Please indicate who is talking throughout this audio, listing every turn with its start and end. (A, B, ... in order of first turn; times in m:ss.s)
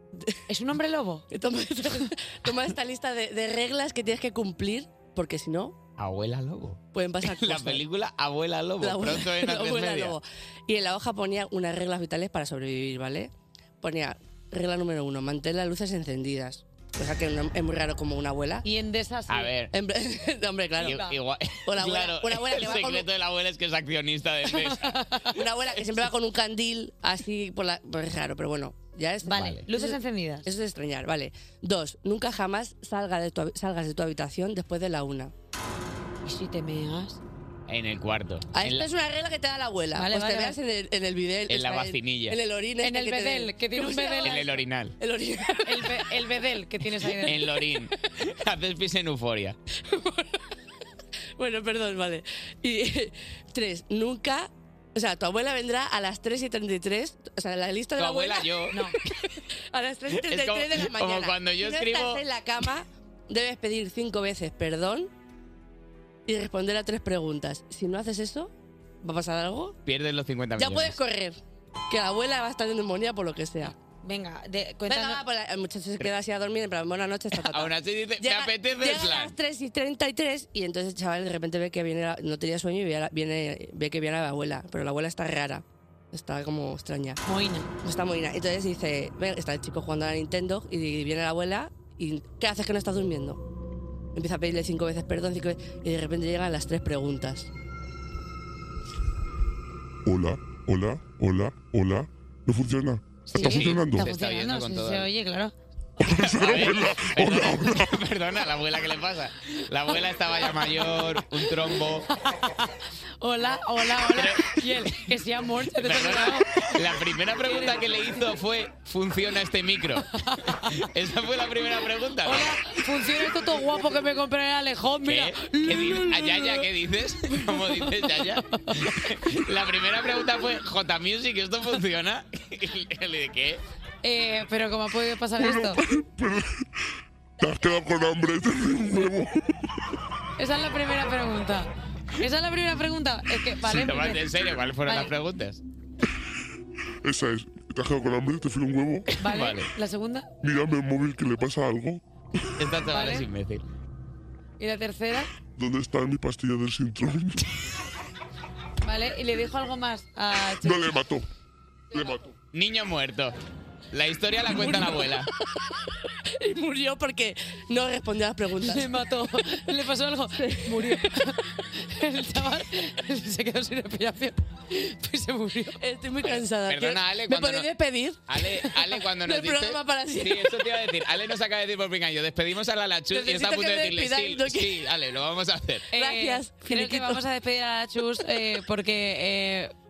0:00.5-0:01.2 A
0:01.3-0:05.8 B
0:06.0-0:10.2 C
0:06.9-0:07.8 B
0:08.8-0:18.7 B
0:18.6-0:19.5 A
0:19.3-0:19.7 C
0:19.7-0:21.0 B
0:20.8-0:26.0 C
0:20.8-0:21.2 A
0:21.7-0:23.1 B
0:24.5-0:25.3 A
0:25.3-0:35.3 B
0:29.2-0:30.5 A
0:29.3-0:29.6 C
0:36.2-0:37.2 A
0:37.7-0:38.9 C
0:38.5-0:46.4 B
0:40.0-0:40.6 A
0:41.5-0:42.4 C
0:42.8-0:44.4 A
0:44.2-0:45.0 C
0:45.6-0:47.4 A
0:47.0-0:47.6 B
0:47.2-0:49.6 C
0:49.9-0:50.4 B
0:51.4-1:05.1 B
0:58.0-0:58.8 C
0:58.7-0:59.0 A
1:00.2-1:02.2 C
1:06.3-1:08.5 B
1:09.0-1:09.8 B
1:09.9-1:11.0 C
1:10.6-1:11.4 B
1:11.9-1:13.8 B
1:14.0-1:15.2 A
1:14.9-1:27.2 B
1:17.4-1:19.3 C
1:27.2-1:27.7 A
1:27.8-1:33.4 B
1:34.2-1:37.5 B
1:40.1-1:44.1 D
1:43.3-1:45.5 A
1:43.4-1:45.1 C
1:46.0-1:48.0 D
1:46.2-1:52.1 C
1:50.4-1:51.5 A
1:52.1-1:56.7 A
1:54.0-1:55.0 C
1:55.8-2:02.8 C
1:57.4-1:58.2 A
2:00.1-2:00.8 A
2:02.2-2:06.7 A
2:05.0-2:13.6 C
2:07.3-2:09.0 A
2:14.0-2:15.8 A
2:15.4-2:16.7 D
2:17.4-2:19.5 D
2:20.4-2:24.3 A
2:23.6-2:25.6 C
2:24.8-2:25.1 A
2:27.0-2:29.2 D
2:29.1-2:29.7 C
2:29.2-2:30.3 A
2:30.4-2:32.6 D
2:32.6-2:33.6 C
2:32.9-2:33.3 A
2:34.6-2:35.3 A
2:35.5-2:37.5 D
2:38.8-2:41.0 A
2:40.4-2:41.3 D
2:41.9-2:42.3 D
2:42.5-2:43.4 C
2:43.9-2:45.3 C
2:44.6-2:45.0 A
2:46.3-2:49.1 B
2:48.6-2:55.8 A
2:50.3-2:51.4 B
2:55.8-3:00.8 B
2:56.2-2:57.7 C
2:58.3-3:05.9 C
3:03.1-3:04.9 B
3:05.9-3:09.7 A
3:05.9-3:07.2 B